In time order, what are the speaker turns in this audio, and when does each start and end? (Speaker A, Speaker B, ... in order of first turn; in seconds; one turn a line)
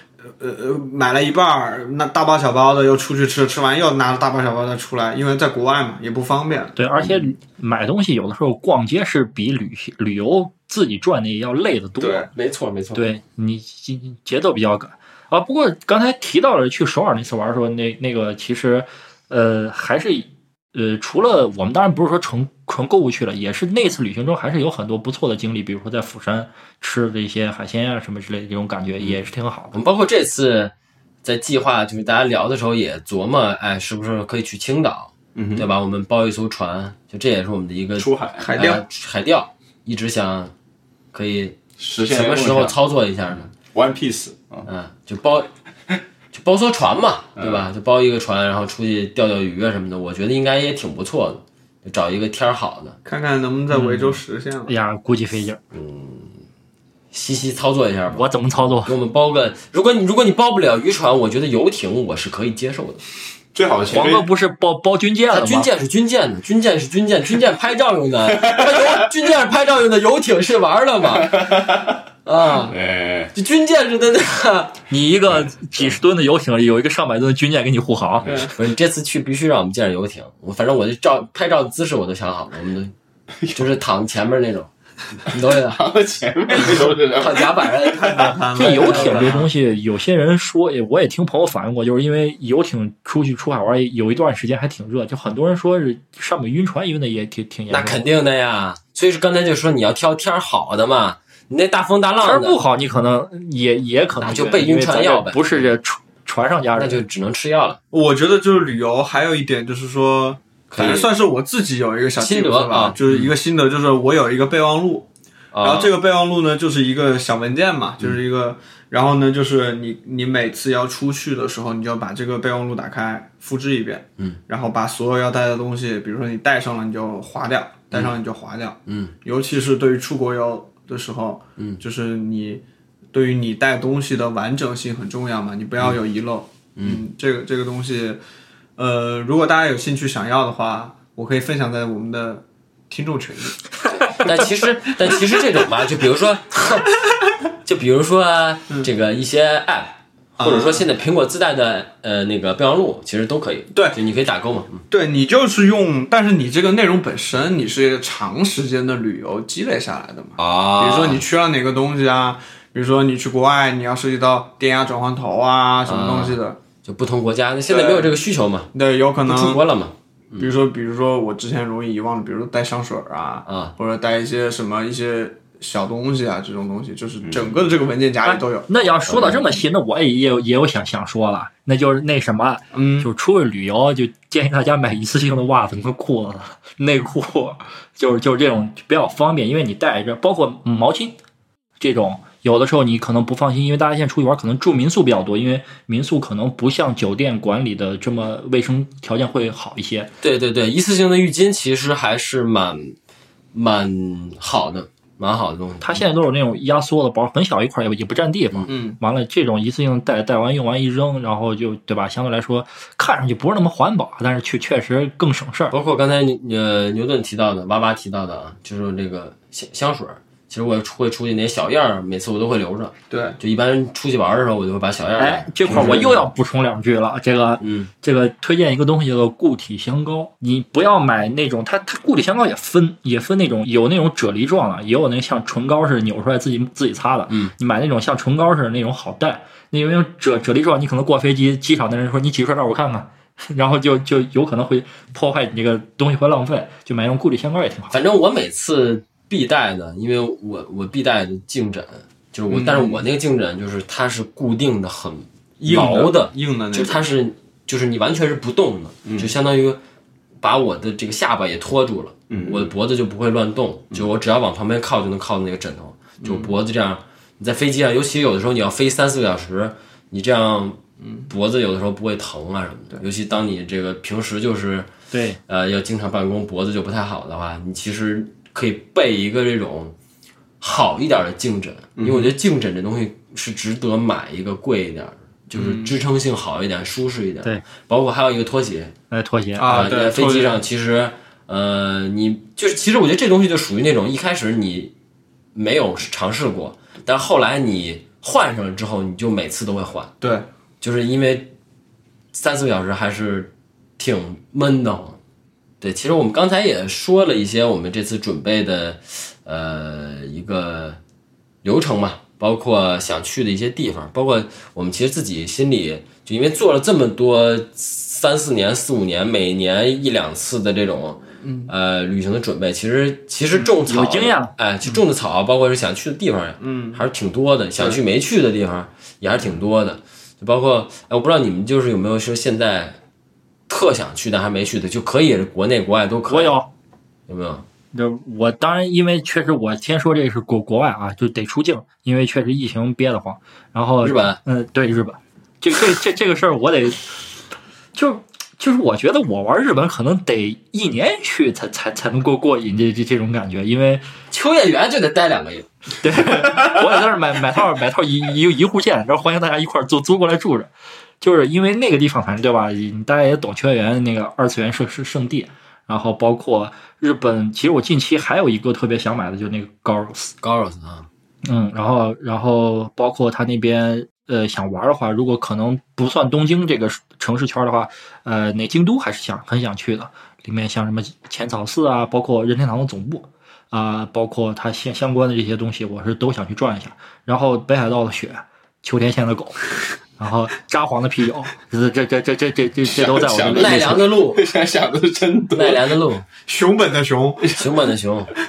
Speaker A: 0.4-6.8
Speaker B: 6.8-12.3
Speaker A: 12.0-12.3
Speaker C: 12.3-13.0
Speaker B: 12.9-29.8
Speaker C: 29.7-30.7
Speaker C: 31.2-40.5
Speaker D: 35.3-35.7
Speaker D: 38.0-38.5
Speaker A: 38.4-38.8
Speaker C: 41.1-43.5
Speaker D: 41.8-42.7
Speaker D: 43.7-44.7
Speaker C: 44.6-45.5
Speaker C: 46.3-53.0
Speaker D: 47.4-47.7
Speaker A: 53.0-54.7
Speaker B: 53.7-55.6
Speaker C: 55.7-56.4
Speaker C: 57.1-58.3
Speaker B: 58.1-58.9
Speaker C: 58.8-63.0
Speaker D: 63.5-64.2
Speaker B: 63.9-65.7
Speaker C: 65.3-71.4
Speaker D: 68.3-69.1
Speaker D: 71.0-73.3
Speaker C: 72.2-72.8
Speaker C: 73.3-74.8
Speaker B: 74.9-78.5
Speaker C: 78.5-82.9
Speaker D: 83.4-83.7
Speaker C: 83.5-85.8
Speaker D: 85.3-88.2
Speaker C: 86.5-89.4
Speaker A: 87.9-89.5
Speaker B: 88.5-98.0
Speaker C: 97.7-102.6
Speaker B: 102.2-107.0
Speaker C: 104.2-105.7
Speaker C: 106.8-107.8
Speaker A: 107.9-115.1
Speaker C: 110.7-111.1
Speaker C: 112.2-113.3
Speaker C: 115.5-115.9
Speaker A: 115.6-138.2
Speaker C: 128.9-129.1
Speaker C: 136.8-137.0
Speaker A: 138.8-143.7
Speaker C: 144.1-146.9
Speaker C: 147.6-154.8
Speaker A: 150.4-150.8
Speaker A: 153.7-154.0
Speaker A: 154.9-166.6
Speaker C: 160.4-161.2
Speaker C: 165.8-168.7
Speaker A: 167.7-168.1
Speaker A: 168.7-169.6
Speaker C: 169.2-170.5
Speaker A: 170.4-178.7
Speaker C: 173.4-173.7
Speaker D: 177.2-177.7
Speaker B: 178.2-191.2
Speaker C: 179.1-179.4
Speaker A: 182.7-183.1
Speaker B: 191.8-200.1
Speaker C: 200.2-202.9
Speaker C: 203.5-206.0
Speaker B: 205.8-215.7
Speaker A: 208.7-209.0
Speaker C: 215.7-226.3
Speaker A: 223.1-223.4
Speaker B: 225.2-247.9
Speaker C: 227.6-227.9
Speaker C: 247.9-259.8
Speaker A: 252.5-253.0
Speaker A: 255.6-257.1
Speaker D: 259.0-259.3
Speaker C: 260.4-274.9
Speaker D: 262.3-262.7
Speaker A: 266.2-266.5
Speaker B: 275.1-275.4
Speaker C: 275.5-279.9
Speaker C: 280.6-288.9
Speaker D: 282.0-282.3
Speaker A: 285.5-285.9
Speaker B: 289.1-289.9
Speaker A: 289.6-290.6
Speaker C: 289.7-294.9
Speaker C: 295.5-300.1
Speaker C: 300.8-301.5
Speaker C: 302.3-305.2
Speaker C: 305.8-311.0
Speaker C: 311.6-333.0
Speaker A: 321.4-321.7
Speaker B: 323.5-324.5
Speaker A: 326.6-327.1
Speaker C: 333.7-336.6
Speaker B: 336.3-336.7
Speaker C: 337.3-337.6
Speaker B: 337.9-347.0
Speaker C: 344.0-344.4
Speaker B: 347.9-354.1
Speaker C: 354.3-355.7
Speaker B: 356.0-360.7
Speaker B: 361.2-370.4
Speaker C: 370.4-371.1
Speaker B: 371.4-394.0
Speaker D: 392.8-395.9
Speaker C: 393.5-394.4
Speaker C: 395.5-396.2
Speaker A: 396.4-397.6
Speaker C: 397.5-398.3